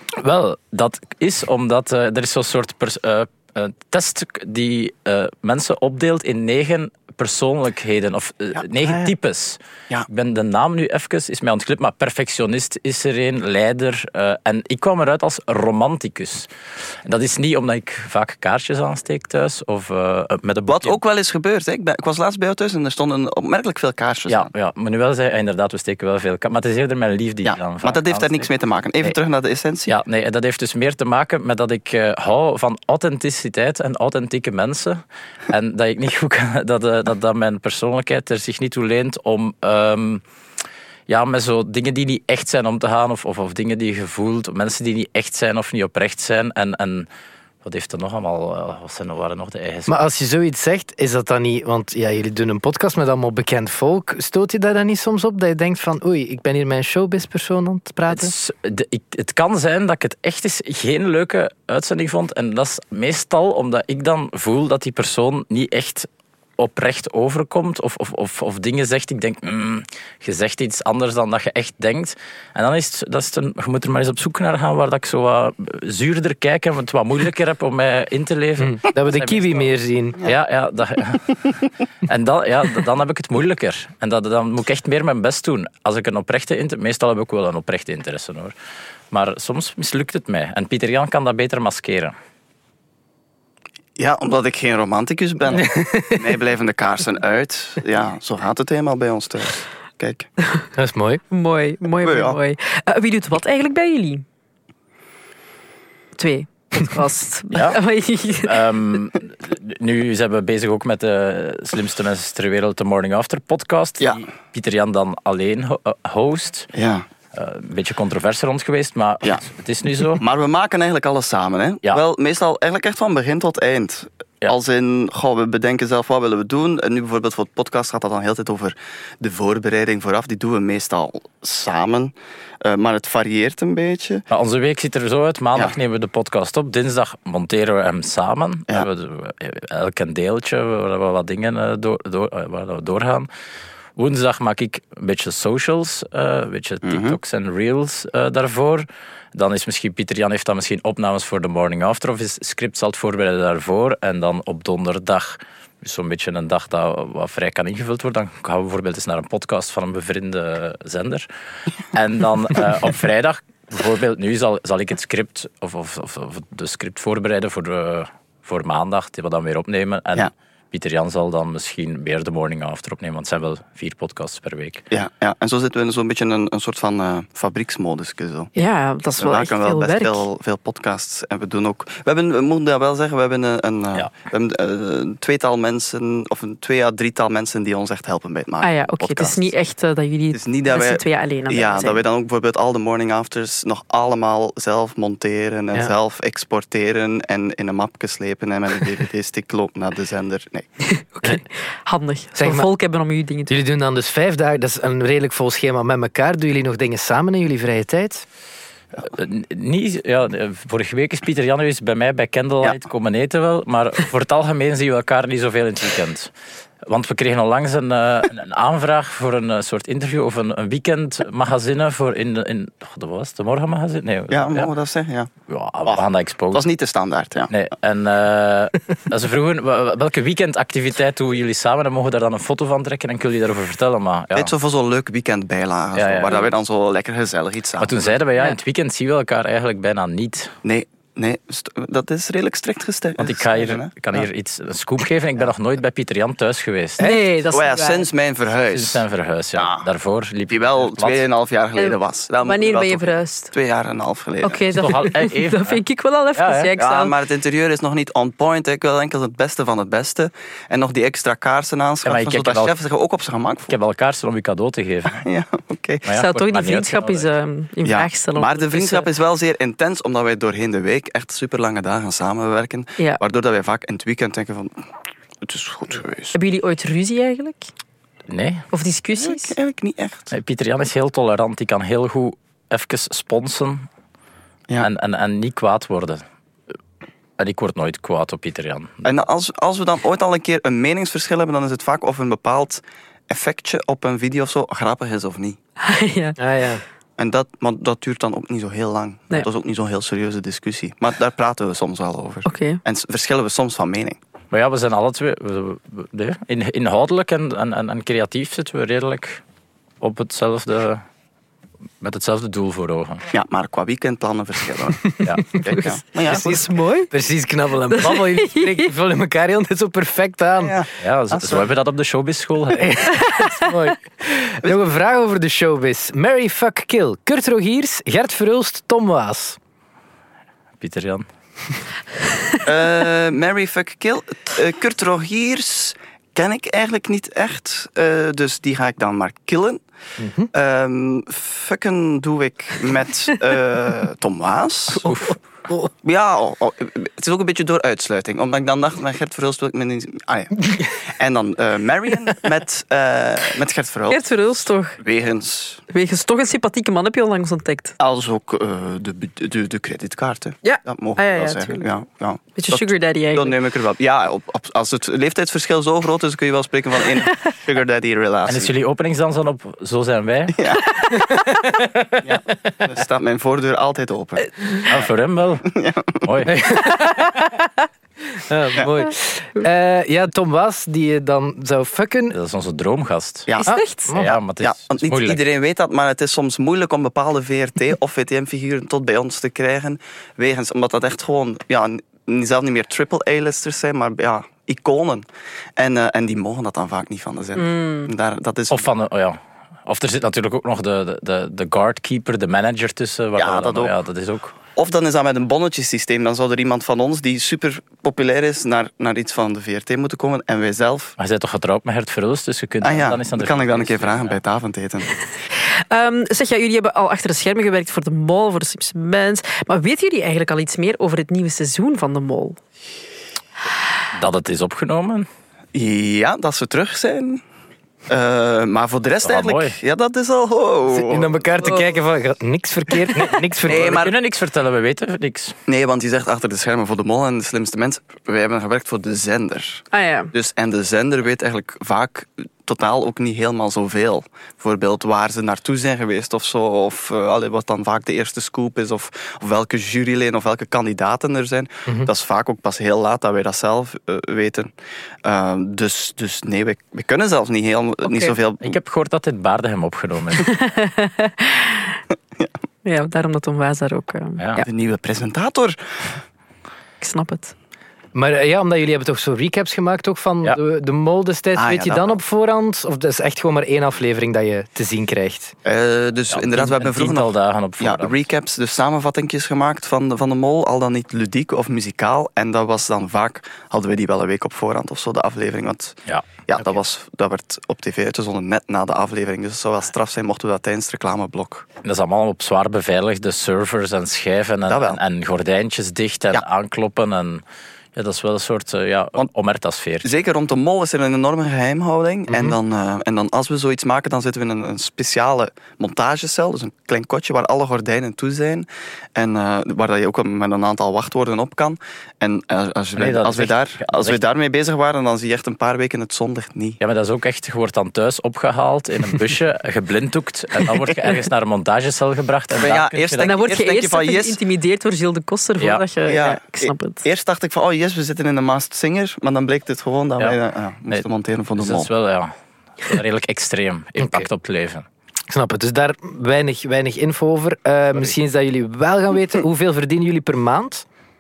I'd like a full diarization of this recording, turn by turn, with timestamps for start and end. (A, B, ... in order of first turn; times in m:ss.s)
0:00.2-0:16.5 A
0:08.8-0:09.1 B
0:17.0-0:21.0 A
0:20.7-0:24.5 B
0:24.3-0:28.5 A
0:27.4-0:30.0 B
0:29.9-0:40.2 A
0:41.1-0:47.1 A
0:47.6-0:49.9 A
0:49.9-0:58.3 C
0:58.1-1:21.5 A
1:18.6-1:20.3 C
1:22.0-1:28.5 A
1:29.1-1:32.2 A
1:34.0-1:40.3 B
1:35.6-1:36.3 C
1:40.8-1:41.2 C
1:41.3-1:44.2 D
1:42.0-1:42.4 B
1:46.2-1:48.6 D
1:47.5-1:47.8 A
1:48.4-1:56.7 A
1:56.7-1:57.1 B
1:57.3-2:00.2 A
2:00.1-2:14.2 B
2:14.3-2:23.3 A
2:24.0-2:41.3 A
2:26.8-2:27.2 B
2:41.9-2:54.8 A
2:54.9-2:58.5 B
2:58.6-3:00.2 D
2:59.2-3:09.5 B
3:08.6-3:12.0 D
3:10.3-3:20.7 B
3:20.9-3:23.5 D
3:22.4-3:22.7 C
3:23.5-3:28.2 C
3:29.1-3:36.3 A
3:36.8-3:44.7 A
3:44.3-3:45.3 B
3:45.5-3:46.6 A
3:45.9-3:47.5 B
3:47.5-3:54.5 A
3:54.3-3:58.1 B
3:56.0-3:56.5 A
3:57.8-4:00.5 A
4:00.6-4:04.2 B
4:03.2-4:07.1 A
4:07.0-4:07.3 C
4:07.0-4:08.1 D
4:07.5-4:09.0 B
4:08.7-4:11.2 A
4:09.6-4:09.9 B
4:10.5-4:14.6 B
4:11.8-4:13.5 D
4:14.4-4:17.1 D
4:14.7-4:15.8 A
4:16.3-4:16.7 A
4:16.8-4:23.7 B
4:22.0-4:22.8 A
4:23.7-4:25.2 A
4:25.1-4:26.0 B
4:26.0-4:27.3 A
4:26.1-4:29.1 D
4:27.8-4:34.9 B
4:35.4-4:36.4 B
4:36.3-4:37.7 D
4:38.3-4:38.7 A
4:38.7-4:39.6 D
4:39.2-4:40.3 B
4:40.3-4:43.9 A
4:44.8-4:46.2 A
4:47.4-4:49.1 A
4:49.0-4:55.6 B
4:55.8-4:56.4 D
4:56.4-4:56.8 C
4:57.2-5:04.2 B
5:02.5-5:02.8 D
5:04.5-5:09.4 A
5:10.0-5:11.0 A
5:12.0-5:13.2 A
5:13.3-5:16.6 B
5:15.2-5:15.6 A
5:15.7-5:17.1 D
5:16.3-5:20.8 C
5:17.9-5:18.9 D
5:20.6-5:21.7 B
5:21.0-5:23.0 A
5:22.8-5:29.6 C
5:23.3-5:23.6 D
5:30.8-5:31.3 A
5:32.6-5:39.8 B
5:40.2-5:40.5 C
5:40.5-5:45.2 B
5:45.0-5:45.3 A
5:46.0-5:55.8 B
5:54.1-5:55.0 D
5:55.9-5:58.0 D
5:58.0-6:08.7 B
6:00.6-6:01.8 D
6:02.6-6:03.6 D
6:08.5-6:10.6 A
6:10.5-6:10.9 B
6:11.2-6:12.2 C
6:12.2-6:15.1 B
6:14.9-6:17.0 A
6:15.7-6:16.3 B
6:16.7-6:17.6 C
6:18.3-6:22.4 C
6:22.3-6:23.5 A
6:23.6-6:24.1 D
6:23.6-6:24.4 C
6:24.1-6:25.4 A
6:24.6-6:38.9 B
6:37.6-6:38.1 D
6:38.7-6:44.5 A
6:43.4-6:43.9 B
6:44.8-6:51.2 B
6:51.2-6:54.4 A
6:52.8-6:55.1 B
6:55.6-7:02.6 D
7:04.2-7:05.3 A
7:05.7-7:07.4 B
7:08.1-7:11.7 B
7:09.2-7:09.8 A
7:10.9-7:14.0 C
7:13.6-7:14.2 B
7:13.7-7:15.6 A
7:15.7-7:34.7 B
7:19.9-7:20.3 D
7:35.2-7:38.8 B
7:38.1-7:38.3 D
7:38.6-7:40.5 A
7:40.4-7:42.0 D
7:42.8-7:44.7 D
7:44.4-7:44.6 A
7:44.6-7:46.2 B
7:47.0-7:47.5 D
7:48.2-7:55.6 C
7:51.6-7:52.2 B
7:55.6-8:06.0 B
7:56.3-7:58.2 A
8:06.5-8:11.7 B
8:11.8-8:17.4 A
8:14.7-8:15.0 B
8:18.0-8:20.1 A
8:20.0-8:36.8 B
8:33.0-8:34.2 A
8:36.8-8:43.3 A
8:42.6-8:44.4 B
8:43.2-8:47.0 D
8:46.0-8:51.9 B
8:51.6-8:54.9 A
8:54.0-8:54.3 C
8:55.3-9:00.9 C